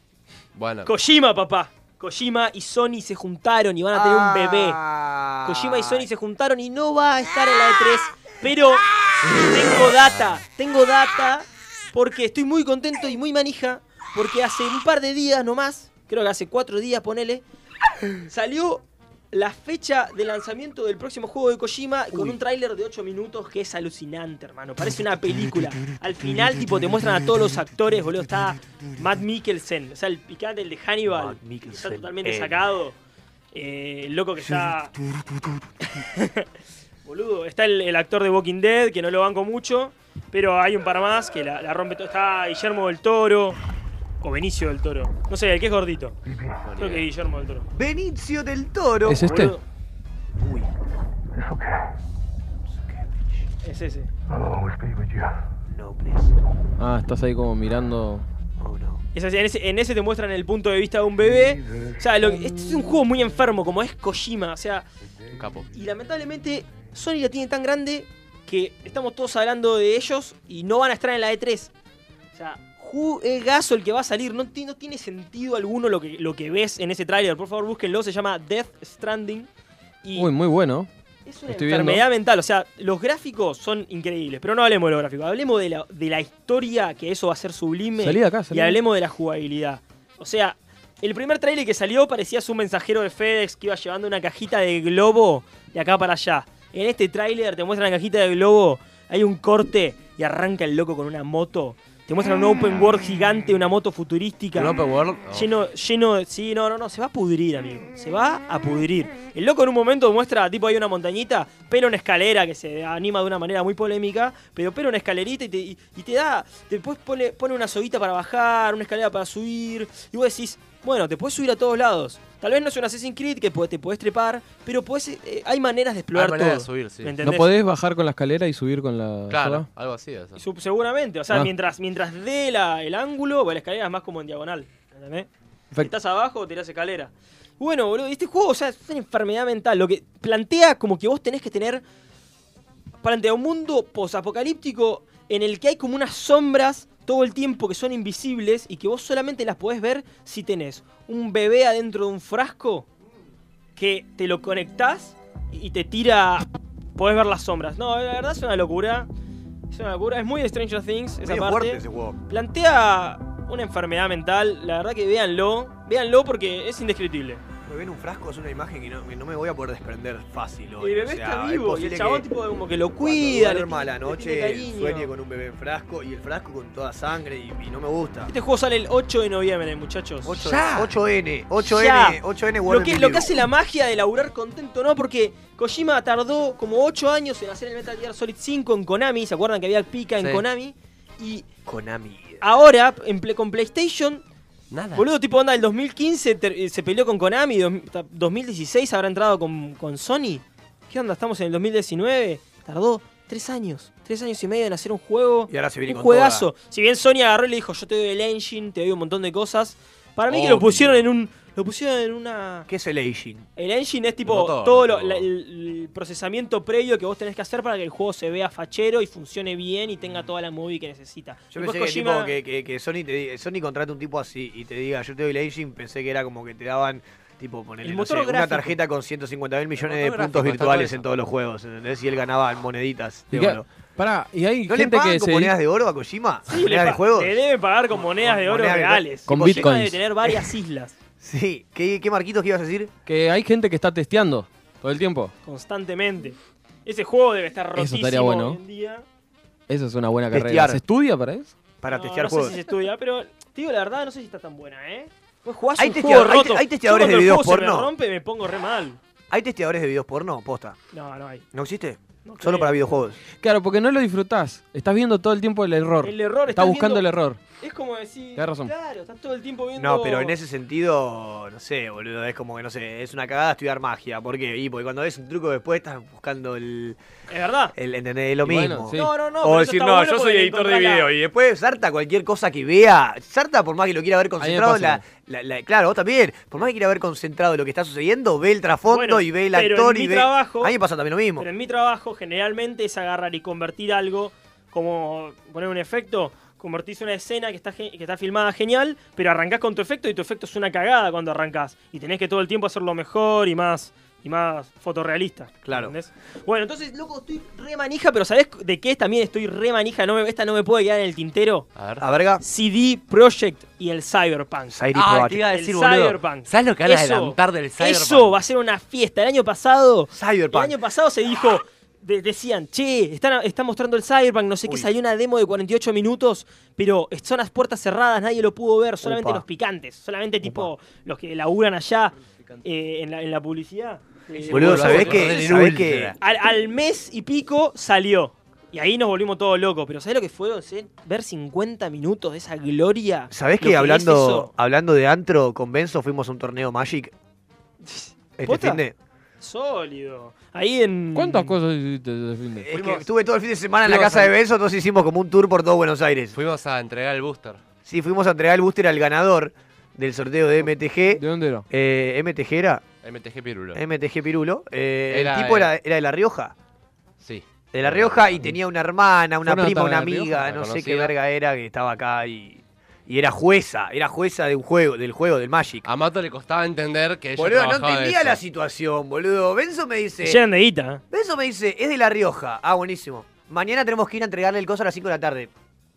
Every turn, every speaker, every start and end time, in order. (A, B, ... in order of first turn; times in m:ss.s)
0:00.5-0:00.9 A
0:00.8-0:04.8 B
0:03.9-0:06.0 C
0:05.4-0:17.4 B
0:18.2-0:33.0 B
0:31.1-0:32.6 C
0:33.5-0:34.9 B
0:36.0-0:36.4 B
0:37.0-0:43.6 B
0:44.2-0:46.2 B
0:46.6-0:47.1 A
0:46.8-0:47.6 B
0:47.7-0:49.3 C
0:49.0-0:49.6 D
0:49.2-0:49.6 B
0:50.4-0:50.7 C
0:52.7-0:53.4 C
0:53.6-0:54.1 B
0:55.7-0:56.3 C
0:56.8-0:58.3 D
0:58.6-0:59.0 C
0:59.1-1:04.9 B
1:05.3-1:05.7 A
1:05.7-1:11.7 B
1:12.3-1:19.5 B
1:20.0-1:20.3 B
1:20.2-1:20.9 D
1:21.2-1:44.8 B
1:21.5-1:22.0 D
1:28.0-1:28.8 D
1:44.5-1:45.5 A
1:45.3-2:07.5 B
2:06.1-2:07.1 A
2:07.2-2:09.7 D
2:09.3-2:10.4 A
2:10.4-2:21.8 B
2:23.0-2:32.9 B
2:33.8-2:39.1 B
2:39.7-2:47.4 B
2:41.2-2:42.2 C
2:47.6-2:52.3 C
2:50.8-2:55.1 B
2:53.0-2:58.3 C
2:58.3-3:00.4 B
3:00.2-3:03.4 C
3:00.3-3:00.9 A
3:01.6-3:11.4 B
3:11.6-3:12.4 C
3:12.4-3:14.2 B
3:14.7-3:15.0 A
3:15.0-3:32.7 B
3:25.5-3:26.5 C
3:30.3-3:31.0 A
3:32.7-3:33.5 C
3:33.6-3:42.3 B
3:34.2-3:35.3 A
3:41.5-3:53.6 C
3:47.8-3:48.8 B
3:49.8-3:51.0 A
3:53.3-3:55.5 D
3:54.7-3:59.7 C
3:56.4-4:01.0 B
3:59.3-4:00.0 D
4:00.2-4:00.5 C
4:01.2-4:02.9 C
4:03.0-4:05.3 D
4:05.4-4:09.0 B
4:07.8-4:08.6 D
4:09.7-4:11.5 D
4:10.3-4:10.8 C
4:11.8-4:12.6 C
4:11.9-4:19.0 B
4:15.8-4:17.9 C
4:19.3-4:20.8 C
4:20.9-4:21.4 B
4:21.5-4:23.2 C
4:22.2-4:22.8 B
4:23.4-4:27.4 D
4:26.0-4:27.0 B
4:27.6-4:30.4 B
4:28.4-4:28.7 D
4:29.8-4:37.0 C
4:37.3-4:37.7 B
4:37.7-4:51.5 C
4:38.4-4:39.1 D
4:38.9-4:41.1 B
4:44.4-4:45.0 D
4:48.9-4:50.7 B
4:51.4-5:11.7 B
5:05.6-5:05.9 C
5:11.8-5:12.0 A
5:12.0-5:12.4 C
5:12.4-5:14.8 B
5:14.7-5:15.4 C
5:14.9-5:18.4 A
5:15.4-5:35.3 B
5:20.1-5:20.8 C
5:29.0-5:29.4 C
5:30.4-5:30.7 C
5:34.4-5:36.1 C
5:34.4-5:36.1 A
5:36.2-5:44.5 B
5:43.3-5:47.1 C
5:47.8-5:48.8 B
5:48.4-5:48.9 C
5:49.4-5:51.6 B
5:51.1-5:52.8 D
5:52.6-5:56.4 C
5:53.8-5:54.3 D
5:56.3-5:57.6 A
5:57.8-6:02.8 C
6:01.1-6:01.6 D
6:03.0-6:03.8 A
6:03.7-6:06.5 C
6:05.1-6:05.7 A
6:07.2-6:08.5 A
6:07.7-6:15.9 C
6:09.4-6:10.4 D
6:10.4-6:11.1 A
6:15.8-6:18.4 A
6:17.4-6:20.4 C
6:20.2-6:21.0 B
6:21.1-6:25.5 C